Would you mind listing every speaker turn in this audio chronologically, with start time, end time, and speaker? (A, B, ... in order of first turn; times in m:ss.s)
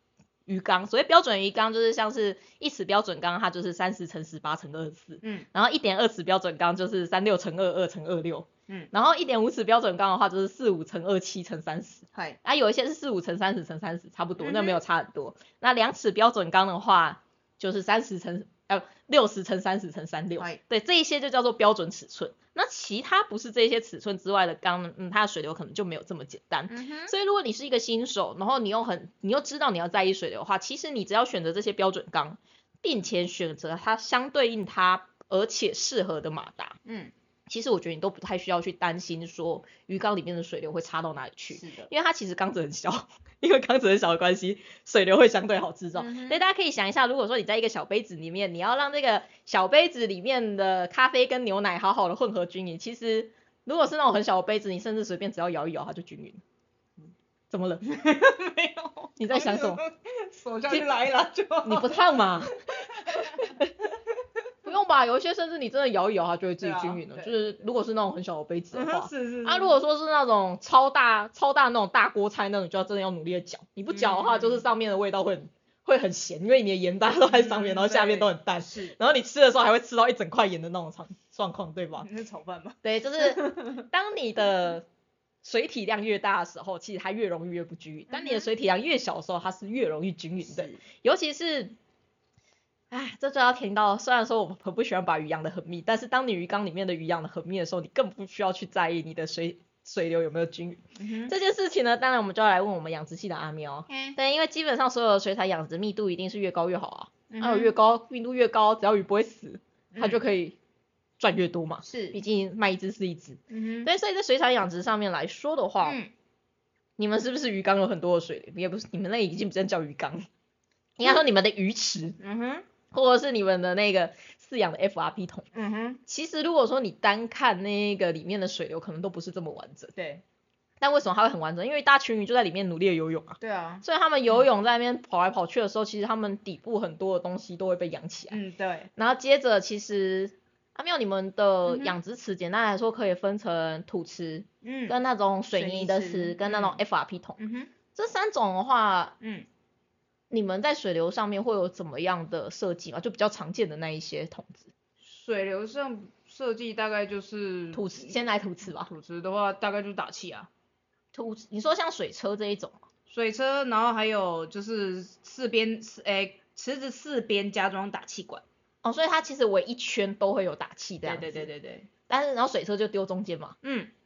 0:00.5-0:36.8 A
0:05.2-0:05.5 B
0:14.4-0:14.8 B
0:26.7-0:27.1 B
0:36.8-0:37.1 B
0:37.5-0:56.4 A
0:41.5-0:41.9 B
0:46.0-0:46.4 B
0:57.5-0:57.9 A
0:57.8-1:02.2 B
0:59.2-0:59.8 A
1:01.6-1:03.7 A
1:02.7-1:04.2 B
1:04.6-1:22.1 A
1:06.6-1:07.3 B
1:08.7-1:09.8 B
1:13.9-1:14.6 B
1:17.2-1:19.0 B
1:22.0-1:23.8 B
1:22.8-1:24.8 A
1:25.4-1:31.7 A
1:28.1-1:28.5 B
1:30.4-1:30.8 B
1:32.9-1:50.6 A
1:41.0-1:41.3 B
1:43.9-1:44.2 B
1:47.3-1:47.8 B
1:49.9-1:50.2 B
1:51.2-1:56.0 A
1:51.8-1:52.2 B
1:53.5-1:53.9 B
1:55.8-1:56.1 B
1:57.0-2:00.3 A
2:01.0-2:02.2 A
2:02.2-2:02.6 B
2:02.9-2:05.5 A
2:05.5-2:06.0 B
2:06.1-2:09.9 A
2:10.0-2:10.2 B
2:10.8-2:18.4 A
2:13.4-2:14.4 B
2:18.3-2:18.9 B
2:19.0-2:27.4 A
2:21.6-2:22.0 B
2:24.6-2:25.0 B
2:25.5-2:26.8 B
2:27.4-2:27.7 B
2:27.9-2:29.1 A
2:29.2-2:29.4 B
2:30.3-2:34.7 A
2:35.0-2:40.5 B
2:37.7-2:38.9 A
2:41.1-2:42.8 A
2:43.1-2:48.4 B
2:48.8-2:51.5 A
2:51.0-2:51.9 B
2:52.1-2:53.6 A
2:53.6-2:53.9 B